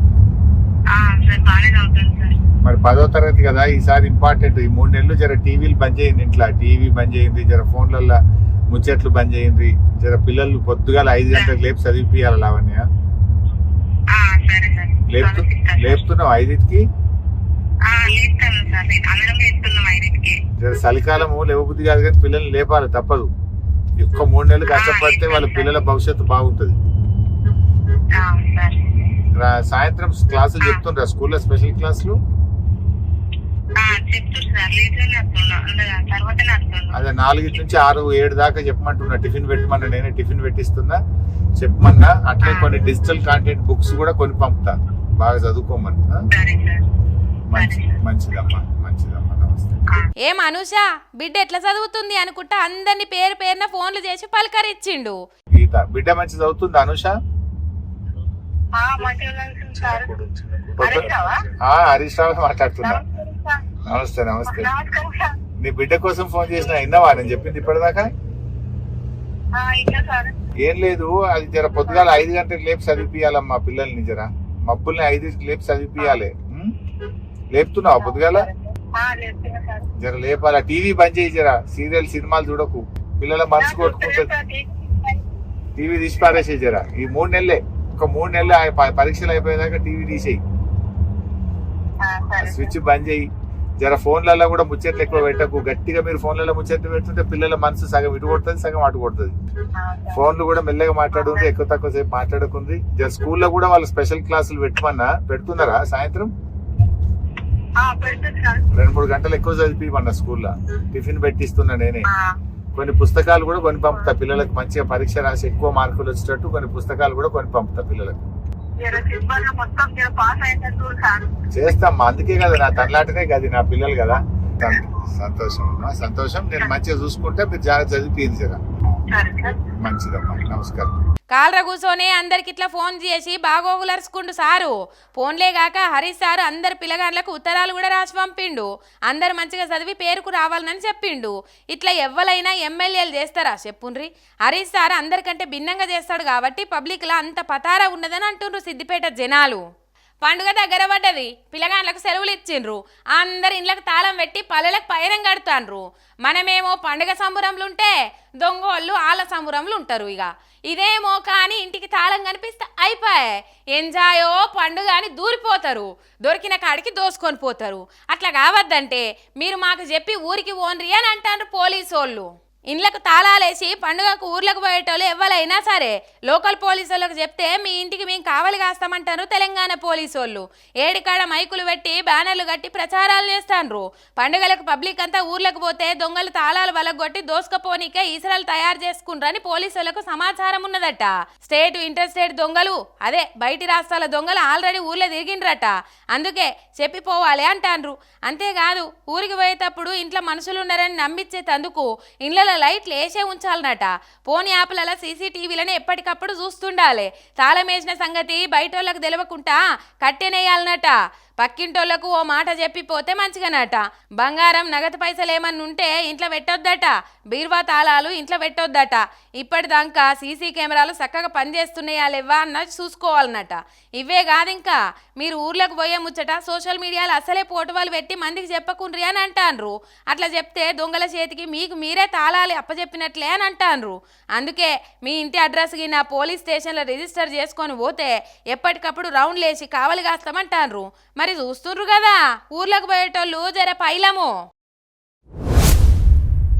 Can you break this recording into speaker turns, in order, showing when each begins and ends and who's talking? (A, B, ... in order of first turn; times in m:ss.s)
0:00.9-0:02.4 A
0:02.6-0:08.2 B
0:08.7-0:12.8 B
0:14.1-0:16.0 A
0:15.1-0:16.8 B
0:17.8-0:20.4 A
0:20.6-0:23.3 B
0:24.0-0:26.8 B
0:24.7-0:25.7 A
0:28.1-0:29.0 A
0:29.4-0:32.2 B
0:33.8-0:36.9 A
0:36.9-0:41.0 B
0:41.6-0:46.2 B
0:42.4-0:42.7 A
0:46.3-0:46.8 A
0:47.5-0:49.8 B
0:47.5-0:48.0 A
0:50.2-0:55.2 C
0:55.6-0:57.1 B
0:58.8-1:00.1 A
1:00.8-1:03.0 B
1:00.8-1:01.4 A
1:02.8-1:03.6 A
1:03.9-1:04.7 B
1:04.4-1:05.3 A
1:05.6-1:08.1 B
1:09.6-1:10.3 A
1:10.6-1:16.7 B
1:11.9-1:12.2 A
1:17.5-1:18.5 B
1:18.0-1:19.9 A
1:20.0-1:24.3 B
1:23.6-1:25.2 A
1:25.8-1:30.4 B
1:32.0-1:32.7 A
1:32.4-1:33.3 B
1:33.8-1:39.3 B
1:39.8-1:40.2 A
1:40.1-1:46.3 B
1:41.1-1:41.5 A
1:47.8-1:48.7 A
1:48.7-1:52.1 B
1:52.0-1:52.3 A
1:52.8-1:58.2 B
1:58.8-2:01.5 A
2:01.5-2:08.6 B
2:09.1-2:09.6 A
2:09.8-2:11.0 B
2:11.3-2:29.6 C
2:30.2-4:04.3 C